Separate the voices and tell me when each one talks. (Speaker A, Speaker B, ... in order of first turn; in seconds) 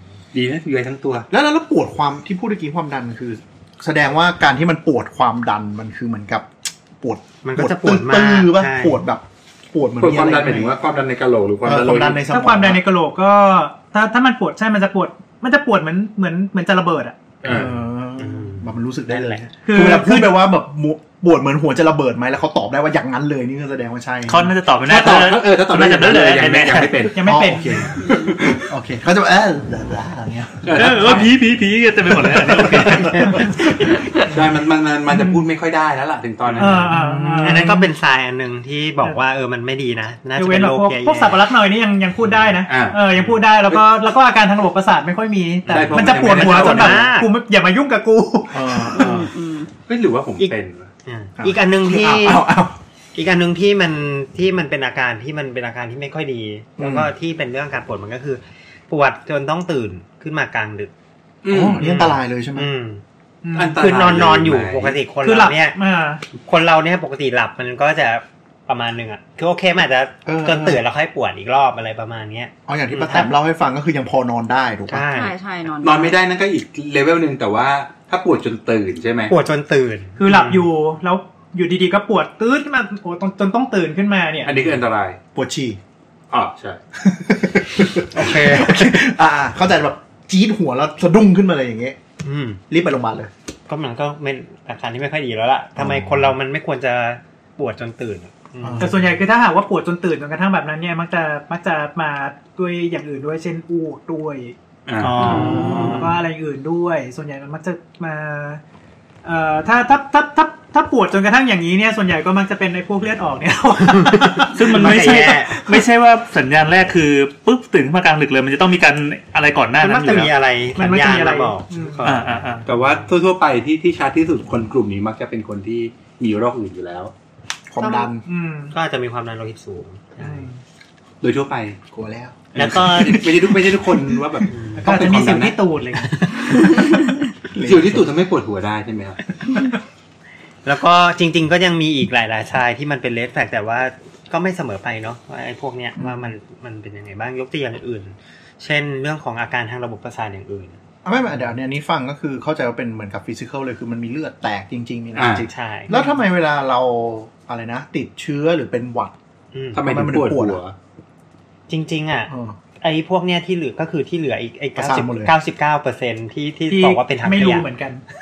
Speaker A: 0.3-1.3, 10.0-12.3, 17.4-17.8, 24.8-27.2, 28.1-28.7, 30.6-31.3, 34.1-36.9, 42.6-43.8, 45.7-47.0, 49.9-50.9, 61.4-62.0, 63.5-65.0, 75.8-79.3, 84.4-85.2, 86.3-86.8, 104.8-105.6, 122.7-127.1, 131.2-131.8, 132.5-135.6, 137.6-139.2, 155.2-155.4, 159.7-160.7
Speaker B: 1.3-10.8, 11.6-12.8, 17.4-24.5, 27.2-31.2, 32.2-33.9, 36.6-37.7, 48.5-49.3, 51.4-52.8, 56.8-57.1, 61.5-62.7, 70.2-70.8, 72.7-75.1, 85.3-85.8, 87.0-92.0, 92.7-93.3, 95.8-96.3, 98.6-99.1, 105.2-106.1, 127.7-128.2, 131.9-133.3, 133.8-134.2, 137.5-138.1, 146.0-146.3, 151.0-159.1, 159.8-160.6, 162.3-162.6, 164.8-165.3
Speaker C: 7.4-9.0, 18.2-19.5, 37.4-41.4, 45.7-47.3, 50.4-52.5, 53.1-60.9, 61.8-63.0, 63.8-65.8, 66.3-73.3, 74.9-75.3, 79.3-80.7, 88.1-89.0, 92.2-92.6, 93.7-99.0, 105.0-106.0, 113.9-115.5, 119.8-123.0, 127.8-128.1, 128.7-130.5, 132.5-133.2, 134.5-134.8, 136.2-136.9, 140.6-150.8, 155.5-156.1, 159.5-159.8, 161.7-167.7
Speaker D: 12.3-17.3, 19.6-20.4, 27.1-27.9, 36.6-37.9, 40.4-49.0, 63.4-63.9, 65.2-66.2, 80.2-84.6, 98.8-104.5, 105.3-108.6, 109.2-115.8, 120.7-122.0, 128.2-128.7, 130.2-130.6, 134.8-136.6, 166.7-168.0
Speaker E: 24.3-27.1, 30.7-33.6, 105.0-105.8, 114.5-120.3, 122.0-122.7
Speaker F: 48.9-49.7, 75.1-76.2